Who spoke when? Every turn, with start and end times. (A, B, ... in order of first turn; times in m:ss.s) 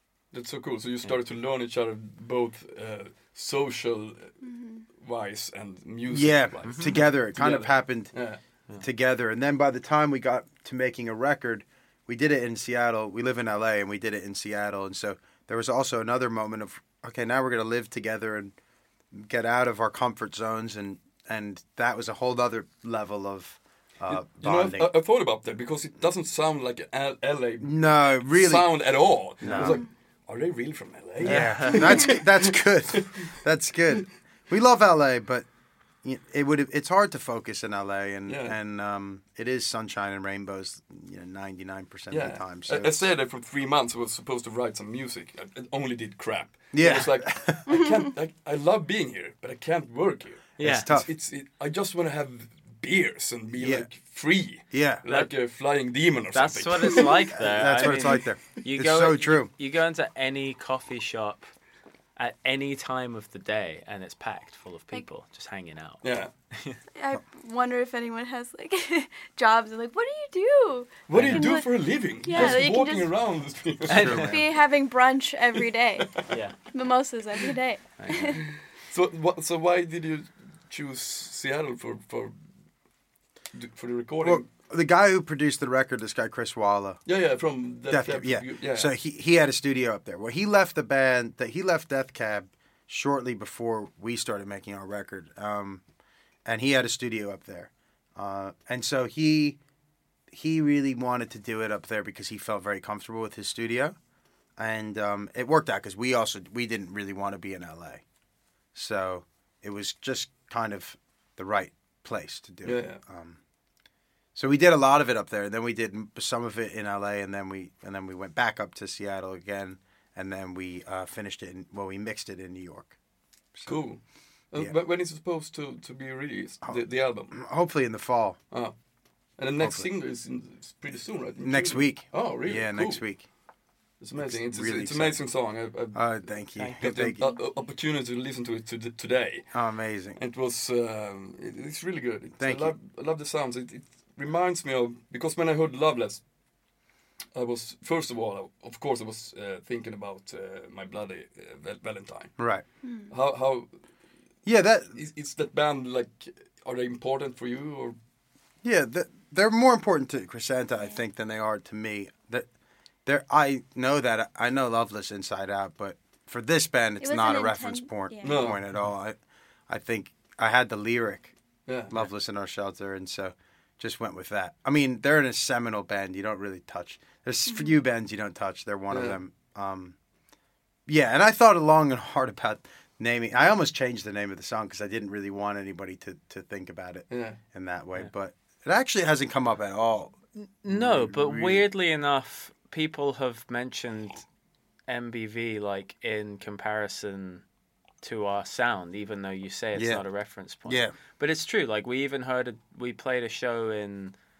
0:00.3-0:04.3 A
0:04.4-0:04.8 B
0:05.0-0:08.4 A
0:06.1-0:08.1 C
0:06.6-0:06.9 D
0:08.8-0:18.5 C
0:19.1-0:24.9 C
0:24.1-0:27.7 A
0:27.6-0:28.7 C
0:28.3-0:33.3 A
0:29.4-0:29.8 C
0:31.2-0:32.1 D
0:31.2-0:35.5 C
0:36.0-0:43.1 C
0:38.3-0:38.6 A
0:42.1-0:57.2 A
0:46.7-0:47.6 C
0:47.7-0:48.0 B
0:50.6-0:50.9 D
0:50.6-0:51.1 C
0:53.6-0:53.9 C
0:54.7-0:55.0 C
0:56.3-1:01.5 D
0:57.3-0:59.5 C
0:57.8-0:58.2 A
1:02.2-1:06.8 D
1:06.0-1:06.3 A
1:06.9-1:11.7 B
1:11.1-1:14.3 A
1:11.1-1:11.5 D
1:12.2-1:13.1 B
1:12.3-1:12.6 D
1:13.9-1:14.4 D
1:13.9-1:14.5 C
1:14.2-1:16.2 B
1:16.3-1:16.6 D
1:16.7-1:18.4 B
1:18.0-1:18.4 D
1:18.4-1:22.3 A
1:23.5-1:24.4 A
1:24.2-1:27.0 C
1:27.1-1:28.9 A
1:27.9-1:35.8 C
1:36.4-1:39.6 C
1:40.3-1:44.0 C
1:44.6-1:48.0 C
1:48.7-1:53.4 C
1:52.6-1:53.0 A
1:54.3-2:02.9 C
2:03.5-2:03.8 C
2:03.6-2:04.0 A
2:04.5-2:07.4 A
2:07.3-2:08.4 C
2:09.4-2:13.0 A
2:09.6-2:09.9 C
2:11.4-2:13.2 C
2:14.0-2:16.1 A
2:14.2-2:15.2 C
2:15.9-2:17.2 C
2:16.6-2:16.8 D
2:16.7-2:19.4 A
2:19.5-2:20.2 C
2:20.2-2:26.2 A
2:22.4-2:22.7 C
2:27.3-2:32.3 A
2:32.4-2:32.6 C
2:32.8-2:33.1 B
2:33.1-2:33.7 A
2:34.4-2:35.0 C
2:34.9-2:38.0 A
2:38.6-2:42.5 C
2:43.0-2:49.2 C
2:47.0-2:48.5 B
2:48.2-2:48.6 A
2:49.7-2:51.3 C
2:51.7-2:51.9 A
2:51.9-3:00.0 C
2:57.5-2:57.8 B
2:58.9-2:59.2 A
3:00.9-3:11.6 C
3:07.1-3:07.4 A
3:10.4-3:14.2 D
3:14.9-3:17.4 D
3:18.0-3:24.2 D
3:19.8-3:20.0 C
3:20.6-3:20.9 C